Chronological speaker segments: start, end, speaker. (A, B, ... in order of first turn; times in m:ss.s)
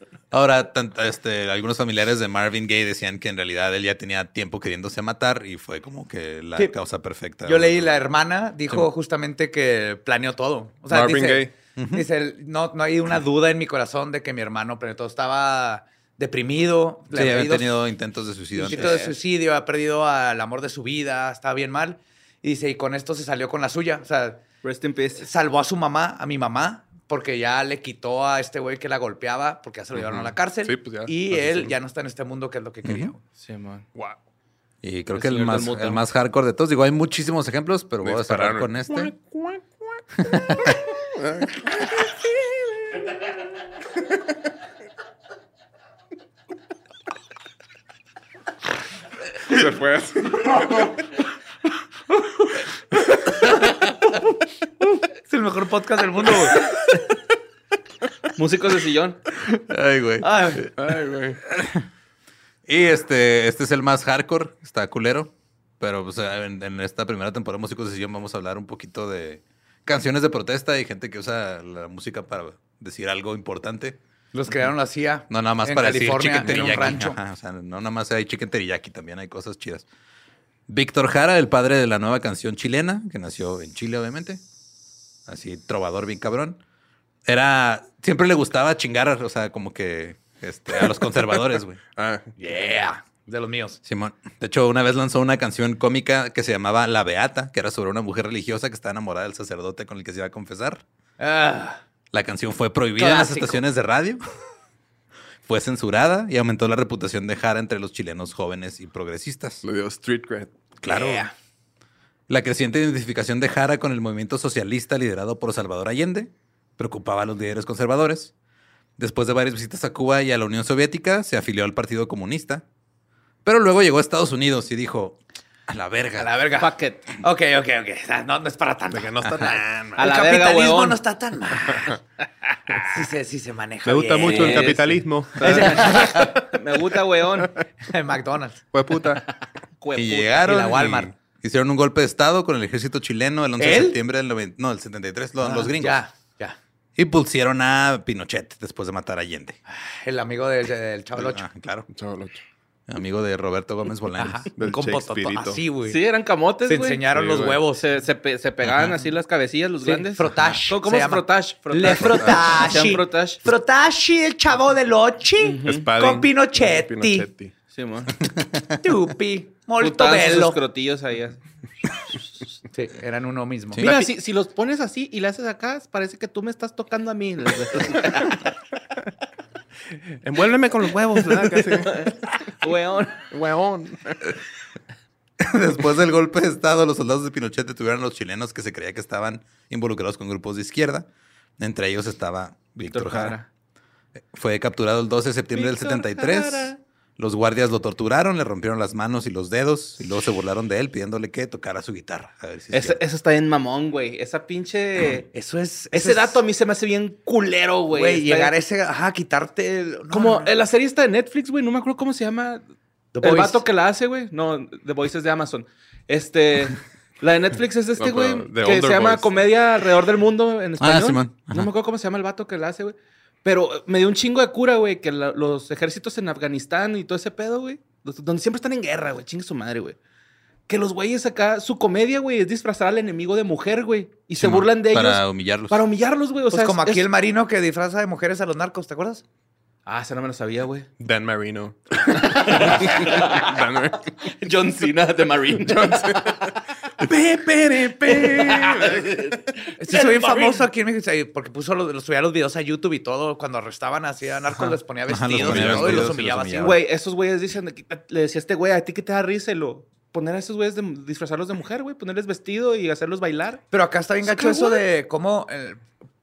0:00.3-0:07.9 A
0:07.4-0:17.7 B
0:10.9-0:11.5 C
0:11.8-0:12.0 A
0:17.1-0:19.0 A
0:18.6-0:24.4 B
0:18.7-0:19.1 D
0:24.6-0:25.3 D
0:25.2-0:33.2 B
0:29.9-0:31.8 C
0:32.8-0:33.1 A
0:33.4-0:33.8 D
0:34.8-0:39.1 A
0:35.1-0:36.0 D
0:38.0-0:39.6 C
0:40.2-0:40.8 A
0:41.2-0:41.9 C
0:49.5-0:50.9 C
0:55.2-0:56.6 B
0:58.3-0:59.2 D
0:59.5-1:00.3 A
1:00.2-1:00.7 B
1:00.8-1:01.4 C
1:01.4-1:01.8 A
1:02.7-1:14.0 A
1:14.3-1:17.2 B
1:15.3-1:19.8 A
1:16.4-1:17.0 C
1:20.7-1:24.4 A
1:25.3-1:26.6 A
1:27.2-1:31.8 A
1:31.9-1:32.3 C
1:32.4-1:33.8 B
1:33.8-1:40.8 A
1:41.2-1:41.8 B
1:42.1-1:44.2 A
1:43.0-1:43.6 B
1:45.4-1:49.6 A
1:49.6-1:50.5 C
1:50.8-1:51.3 A
1:50.8-1:51.3 B
1:52.3-1:58.3 A
1:59.0-2:02.6 A
2:03.4-2:06.3 A
2:06.2-2:11.9 B
2:06.6-2:07.1 D
2:08.9-2:10.0 C
2:10.0-2:11.0 D
2:12.8-2:14.7 B
2:13.8-2:16.1 C
2:14.2-2:17.5 D
2:15.4-2:16.3 B
2:17.9-2:18.6 B
2:18.7-2:19.2 C
2:19.8-2:20.9 D
2:19.9-2:26.0 A
2:20.4-2:21.1 B
2:23.6-2:24.0 B
2:25.4-2:26.6 B
2:27.0-2:29.6 A
2:29.7-2:31.4 B
2:31.2-2:31.9 A
2:31.9-2:32.4 C
2:32.9-2:34.5 A
2:34.2-2:36.0 B
2:34.5-2:35.6 C
2:35.9-2:37.0 D
2:36.7-2:37.8 B
2:37.1-2:37.6 C
2:37.7-2:43.4 D
2:38.6-2:38.9 A
2:39.8-2:47.3 B
2:42.0-2:42.4 C
2:45.4-2:45.9 D
2:45.6-2:47.5 C
2:47.7-2:48.1 D
2:48.8-2:50.6 B
2:49.8-2:51.4 D
2:52.7-2:53.9 B
2:53.8-2:58.4 D
3:00.2-3:02.1 C
3:01.3-3:03.2 D
3:03.3-3:04.2 C
3:05.4-3:11.1 A
3:11.6-3:13.4 A
3:12.9-3:13.5 D
3:14.3-3:23.0 A
3:15.5-3:16.8 D
3:22.7-3:25.3 D
3:25.3-3:26.4 B
3:25.9-3:28.5 D
3:27.9-3:30.5 B
3:30.1-3:32.6 D
3:33.1-3:33.6 B
3:33.2-3:50.0 D
3:38.0-3:39.5 C
3:40.8-3:41.7 A
3:50.7-3:57.0 D
3:54.4-3:55.8 A
3:56.5-3:59.2 B
3:59.8-4:00.9 D
4:01.0-4:04.0 C
4:02.4-4:03.5 D
4:04.4-4:06.3 D
4:05.5-4:09.3 C
4:08.0-4:10.6 D
4:09.8-4:16.8 B
4:15.1-4:16.8 A
4:15.4-4:23.6 D
4:23.7-4:25.8 B
4:24.2-4:24.8 D